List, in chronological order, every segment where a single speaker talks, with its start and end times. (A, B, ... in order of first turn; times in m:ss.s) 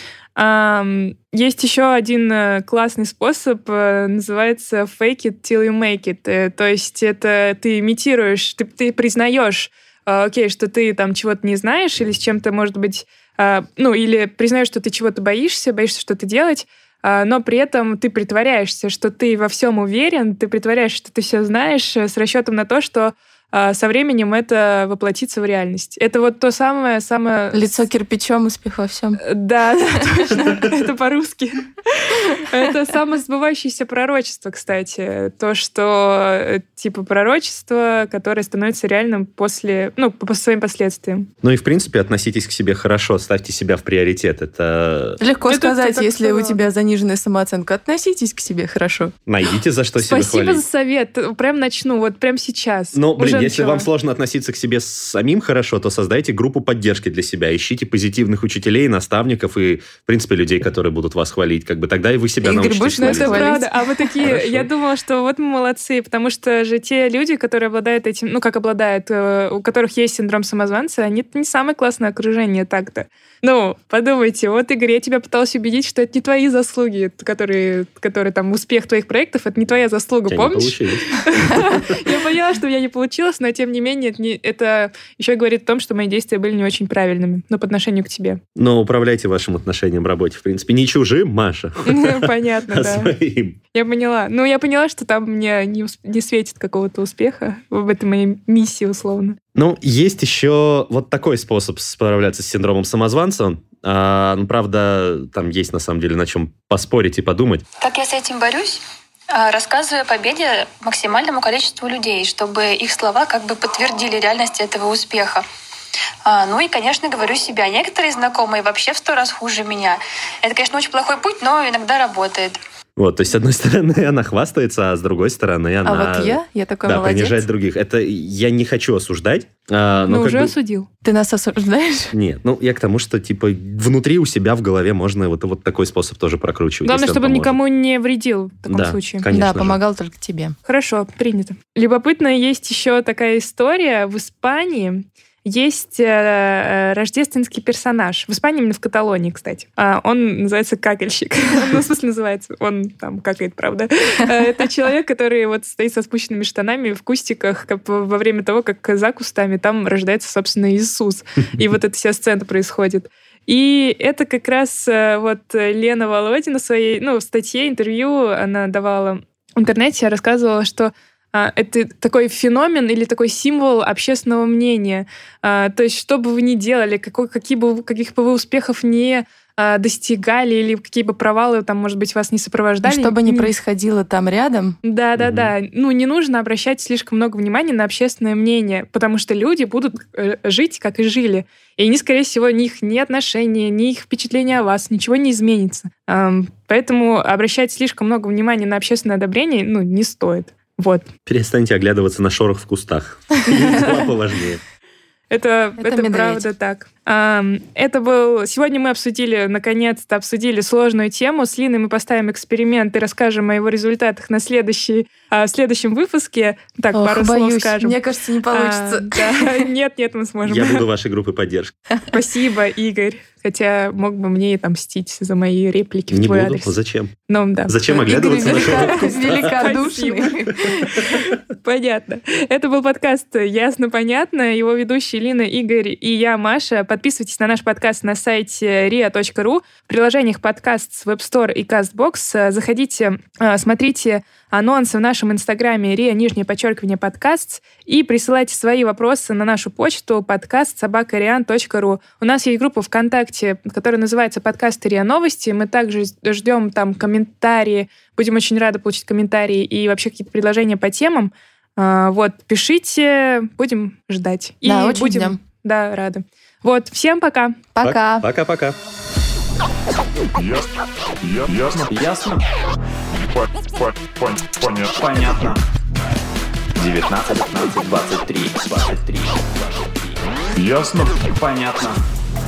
0:00.4-0:27.8 A
0:27.5-0:29.2 B
0:29.2-0:41.3 A
0:29.9-0:30.5 B
0:41.4-0:45.2 C
0:45.2-0:49.1 B
0:45.5-0:46.6 A
0:49.3-0:50.6 C
0:50.0-0:53.9 A
0:52.9-1:03.6 C
1:02.4-1:04.1 B
1:02.9-1:28.4 A
1:04.2-1:04.7 C
1:20.3-1:21.9 C
1:28.6-1:33.6 C
1:31.8-1:33.1 A
1:33.7-1:39.4 A
1:39.5-1:47.6 C
1:47.8-1:48.8 D
1:49.3-1:55.4 D
1:56.2-2:02.6 D
2:03.0-2:10.5 C
2:05.8-2:07.5 B
2:10.1-2:10.9 A
2:11.0-2:12.1 B
2:12.1-2:17.6 C
2:16.8-2:19.2 A
2:18.7-2:19.8 C
2:19.3-2:20.5 B
2:20.6-3:03.5 A
3:02.8-3:04.8 B
3:04.8-3:21.1 A
3:05.2-3:05.5 C
3:21.2-3:24.6 C
3:25.3-3:38.0 A
3:25.8-3:26.5 B
3:36.9-3:39.3 B
3:38.5-3:40.8 A
3:40.4-3:41.7 C
3:42.1-3:46.7 A
3:46.1-3:47.2 C
3:47.3-4:27.6 A
3:47.7-3:49.5 C
3:47.9-3:50.7 B
4:24.6-4:25.4 B
4:27.7-4:28.3 B
4:27.8-4:28.8 C
4:30.4-4:31.9 E
4:31.8-4:32.4 F
4:33.3-4:35.0 E
4:35.0-4:35.6 F
4:36.8-4:40.2 F
4:40.6-4:41.4 E
4:41.4-4:42.0 F